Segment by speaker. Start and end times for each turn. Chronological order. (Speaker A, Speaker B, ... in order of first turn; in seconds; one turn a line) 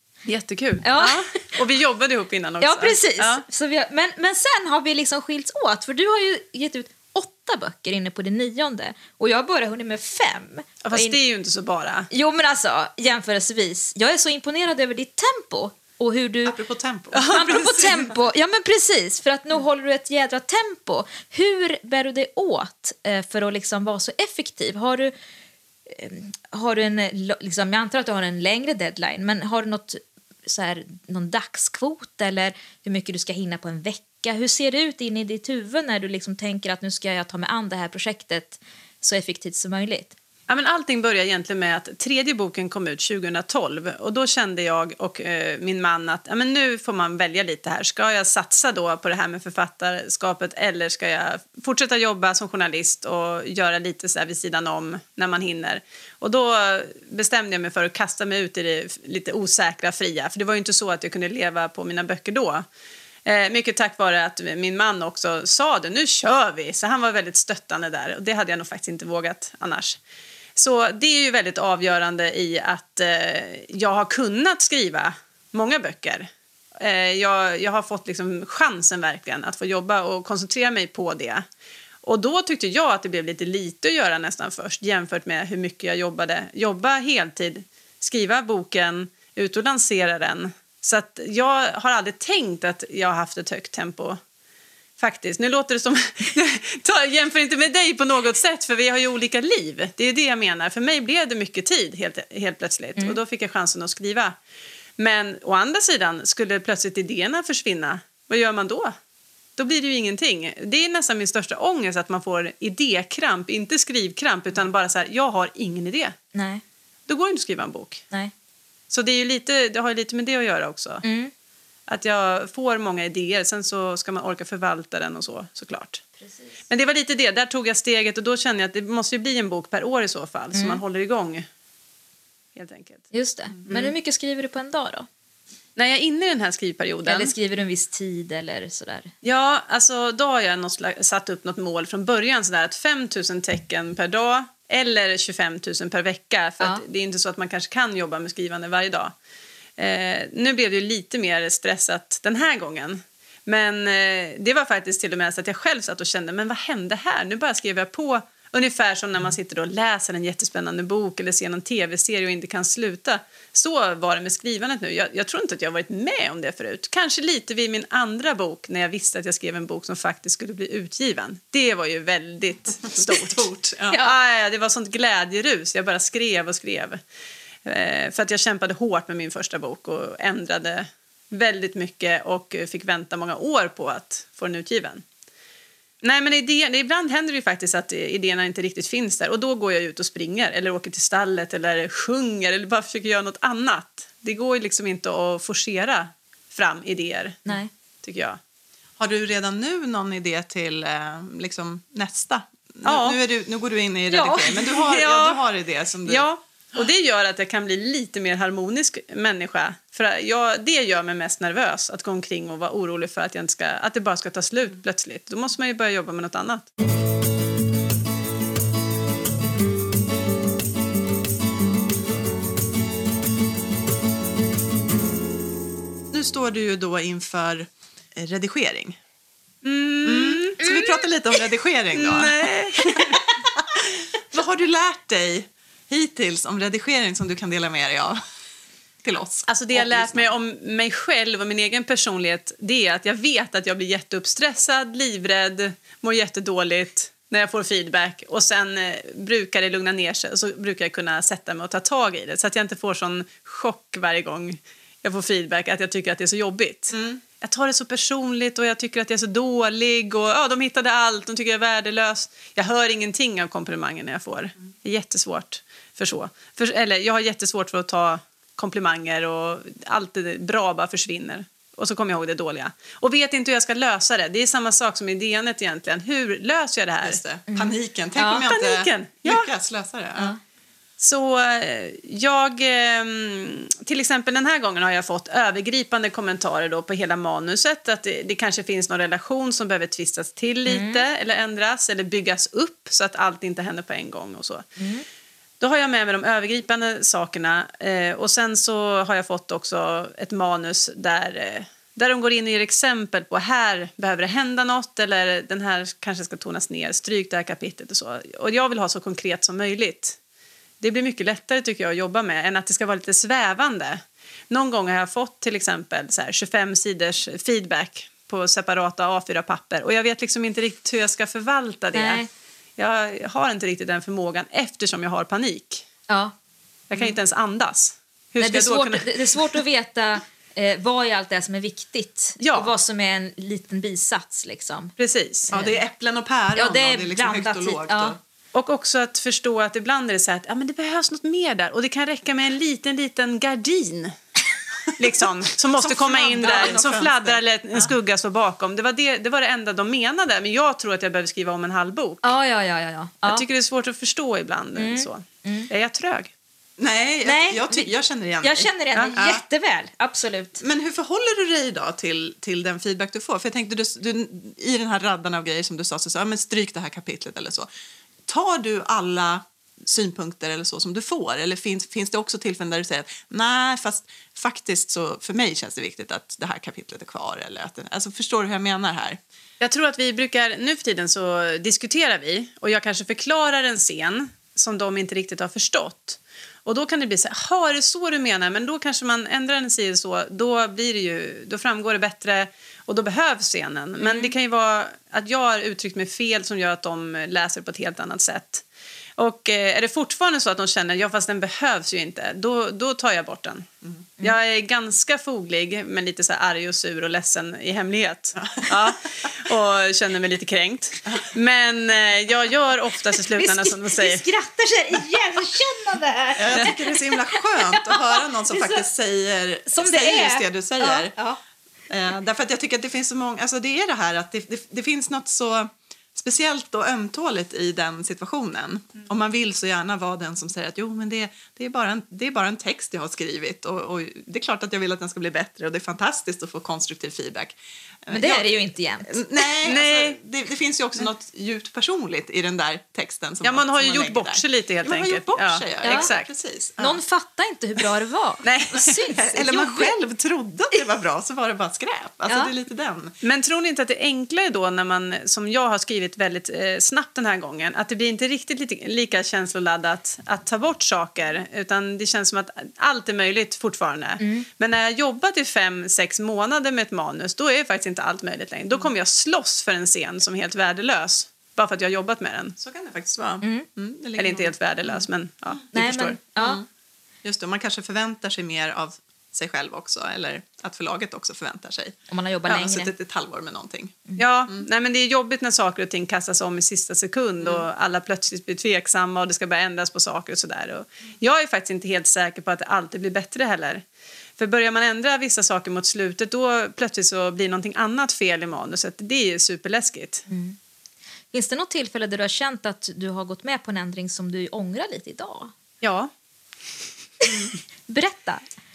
Speaker A: 0.2-3.4
Speaker B: 0.8-1.2
Speaker B: 2.6-11.2
Speaker A: 10.8-12.1
Speaker B: 12.1-16.6
Speaker C: 16.4-18.0
Speaker A: 17.1-17.9
Speaker B: 17.3-25.1
Speaker B: 25.9-40.1
Speaker A: 40.5-62.6
Speaker A: 63.2-70.0
Speaker A: 70.5-81.4
Speaker A: 82.0-94.2
Speaker A: 95.0-104.3
Speaker A: 105.0-108.9
Speaker A: 109.6-116.2
Speaker B: 116.3-116.6
Speaker A: 117.1-118.0
Speaker A: 118.9-121.0
Speaker B: 121.0-121.3
Speaker A: 121.9-126.0
Speaker B: 126.2-126.5
Speaker A: 126.7-131.5
Speaker B: 130.5-130.8
Speaker A: 132.6-133.1
Speaker B: 133.1-135.1
Speaker A: 133.7-133.9
Speaker A: 135.8-137.3
Speaker B: 137.0-139.1
Speaker A: 139.2-149.1
Speaker A: 149.8-177.0
Speaker C: 173.0-174.1
Speaker A: 177.6-185.0
Speaker A: 186.0-198.4
Speaker C: 199.0-206.3
Speaker A: 202.8-203.2
Speaker B: 204.1-204.7
Speaker A: 204.8-205.4
Speaker A: 206.1-216.7
Speaker C: 226.1-229.0
Speaker A: 229.6-230.7
Speaker C: 230.0-238.2
Speaker B: 230.6-230.9
Speaker A: 231.9-233.2
Speaker C: 239.0-240.3
Speaker A: 239.5-277.2
Speaker C: 256.9-257.2
Speaker C: 277.0-280.4
Speaker B: 277.5-278.4
Speaker A: 278.2-279.5
Speaker A: 281.0-294.6
Speaker B: 290.6-291.0
Speaker B: 294.8-295.0
Speaker A: 295.6-310.2
Speaker A: 310.8-322.2
Speaker B: 321.9-322.3
Speaker A: 322.8-325.9
Speaker B: 326.1-326.3
Speaker A: 326.9-329.6
Speaker B: 328.4-334.9
Speaker A: 332.4-332.7
Speaker A: 335.0-335.5
Speaker C: 335.5-338.2
Speaker B: 336.5-338.1
Speaker A: 338.5-344.1
Speaker A: 344.9-352.3
Speaker C: 345.8-347.9
Speaker B: 352.2-353.4
Speaker A: 353.2-356.3
Speaker B: 354.8-355.7
Speaker C: 356.8-359.4
Speaker B: 357.2-357.9
Speaker B: 358.4-360.6
Speaker C: 360.6-367.7
Speaker C: 368.3-379.2
Speaker A: 379.6-398.6
Speaker B: 394.0-394.3
Speaker A: 399.2-403.7
Speaker A: 404.2-414.2
Speaker C: 408.4-408.6
Speaker B: 413.3-418.8
Speaker C: 416.4-421.1
Speaker B: 419.7-421.4
Speaker C: 421.9-447.0
Speaker B: 438.1-439.2
Speaker A: 439.6-440.2
Speaker A: 443.4-446.3
Speaker B: 445.8-446.1
Speaker B: 446.8-449.9
Speaker A: 448.4-449.0
Speaker C: 448.8-453.1
Speaker B: 452.3-452.5
Speaker A: 453.2-472.6
Speaker B: 464.2-464.4
Speaker C: 472.6-475.0
Speaker A: 474.2-476.2
Speaker B: 475.7-476.6
Speaker C: 477.2-482.0
Speaker B: 482.1-482.9
Speaker C: 482.5-484.6
Speaker A: 484.2-493.8
Speaker A: 494.4-500.2
Speaker B: 500.3-500.6
Speaker B: 501.3-505.5
Speaker A: 505.8-506.1
Speaker B: 507.9-508.4